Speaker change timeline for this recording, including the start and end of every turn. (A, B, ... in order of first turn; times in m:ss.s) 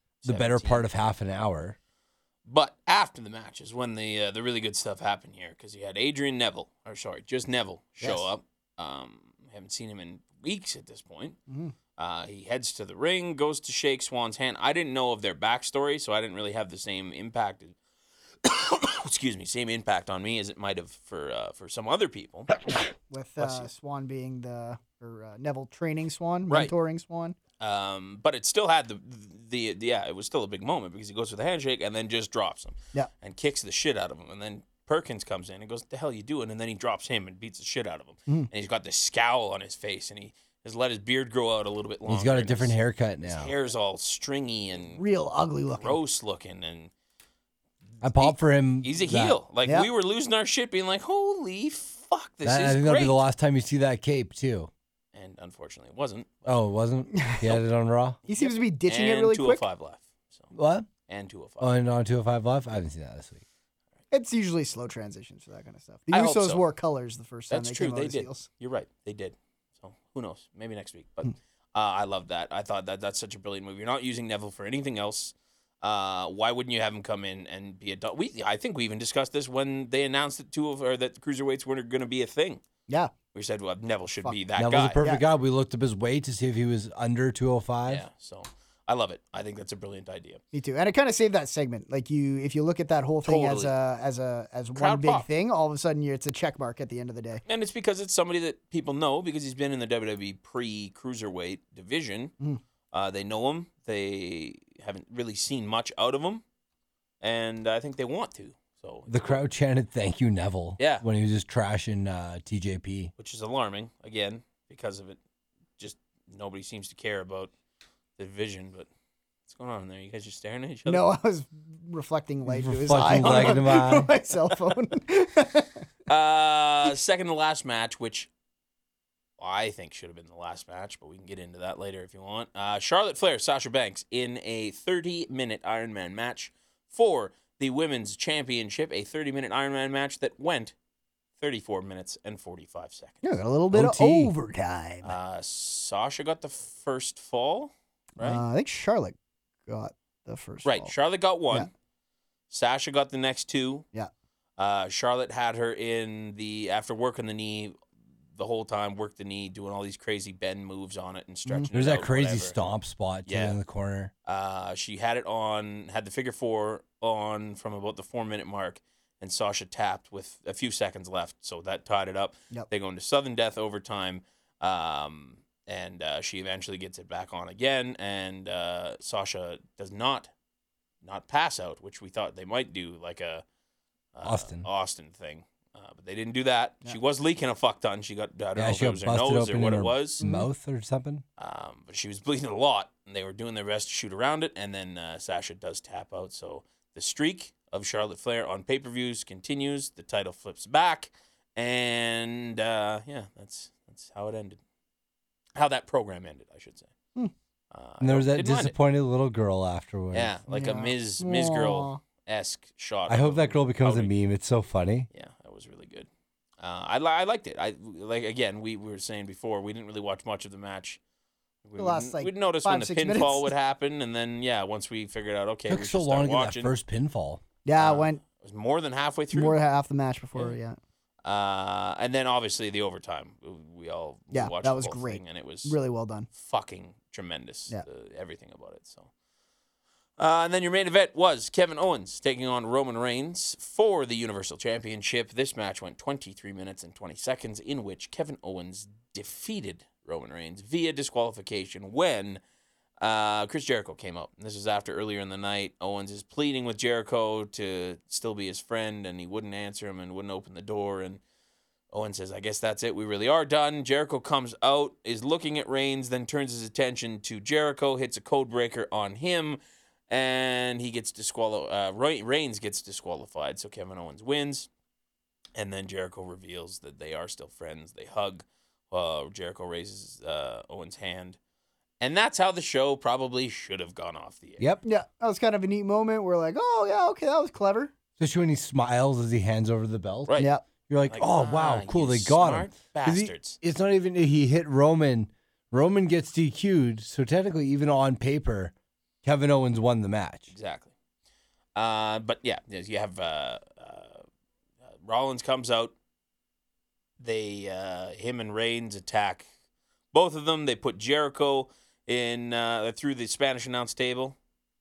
0:00.2-0:00.8 A
0:00.2-0:01.8 B
0:02.5-0:11.4 A
0:08.0-0:08.3 C
0:11.5-0:11.7 C
0:12.0-0:17.7 A
0:18.4-0:22.6 A
0:22.7-0:27.4 C
0:23.4-0:23.7 A
0:27.6-0:45.0 A
0:42.1-0:43.5 B
0:44.8-0:46.0 C
0:45.8-0:46.9 A
0:48.0-0:53.2 A
0:48.0-0:49.4 B
0:52.4-0:54.7 B
0:55.1-0:56.6 A
0:56.4-0:58.2 B
0:57.1-0:57.4 C
0:58.2-1:00.5 A
0:58.3-0:59.6 C
1:00.5-1:00.9 B
1:01.1-1:01.7 A
1:01.6-1:03.4 B
1:04.1-1:08.4 C
1:06.1-1:06.6 A
1:07.5-1:22.6 A
1:23.3-1:25.0 A
1:24.6-1:28.0 B
1:27.9-1:30.4 A
1:30.5-1:37.4 C
1:33.2-1:33.7 A
1:34.7-1:35.2 A
1:37.4-1:42.3 A
1:42.9-1:46.4 A
1:47.2-1:49.4 A
1:49.1-1:53.1 B
1:50.8-1:51.0 A
1:53.2-1:55.2 A
1:55.8-1:57.5 A
1:58.2-1:58.9 A
1:59.5-2:01.0 A
2:00.8-2:05.7 C
2:02.5-2:04.1 B
2:03.2-2:04.0 A
2:06.1-2:08.3 A
2:09.4-2:20.7 A
2:21.4-2:23.2 A
2:23.2-2:25.1 C
2:23.7-2:24.3 B
2:25.0-2:28.4 A
2:28.2-2:30.9 C
2:30.6-2:31.7 A
2:32.5-2:33.8 A
2:34.6-2:37.7 A
2:38.4-2:42.6 A
2:41.7-2:44.1 B
2:43.2-2:43.6 A
2:44.2-3:00.3 A
3:01.0-3:03.4 A
3:04.1-3:10.2 A
3:04.2-3:04.6 B
3:08.6-3:11.2 B
3:10.2-3:10.5 C
3:11.4-3:24.6 A
3:25.5-3:26.9 A
3:27.7-3:28.7 A
3:28.0-3:30.3 B
3:30.1-3:34.1 A
3:30.5-3:32.0 C
3:33.1-3:35.1 B
3:35.1-3:36.1 A
3:36.6-3:41.0 A
3:41.6-3:46.7 A
3:41.8-3:43.5 C
3:45.7-3:47.4 B
3:47.6-3:48.2 C
3:47.8-3:49.6 A
3:49.3-3:50.8 C
3:51.2-3:55.8 A
3:54.3-3:56.3 C
3:56.3-3:59.1 A
4:00.2-4:12.4 A
4:13.0-4:21.2 A
4:21.9-4:29.6 A
4:30.1-4:34.7 A
4:35.5-4:41.4 A
4:42.0-4:44.7 A
4:44.8-4:47.9 C
4:48.2-4:58.7 B
4:50.4-4:50.6 C
4:51.1-4:53.6 A
4:59.2-5:00.5 B
5:00.5-5:00.9 A
5:01.7-5:04.2 A
5:05.0-5:05.9 A
5:07.2-5:09.4 A
5:10.1-5:14.4 A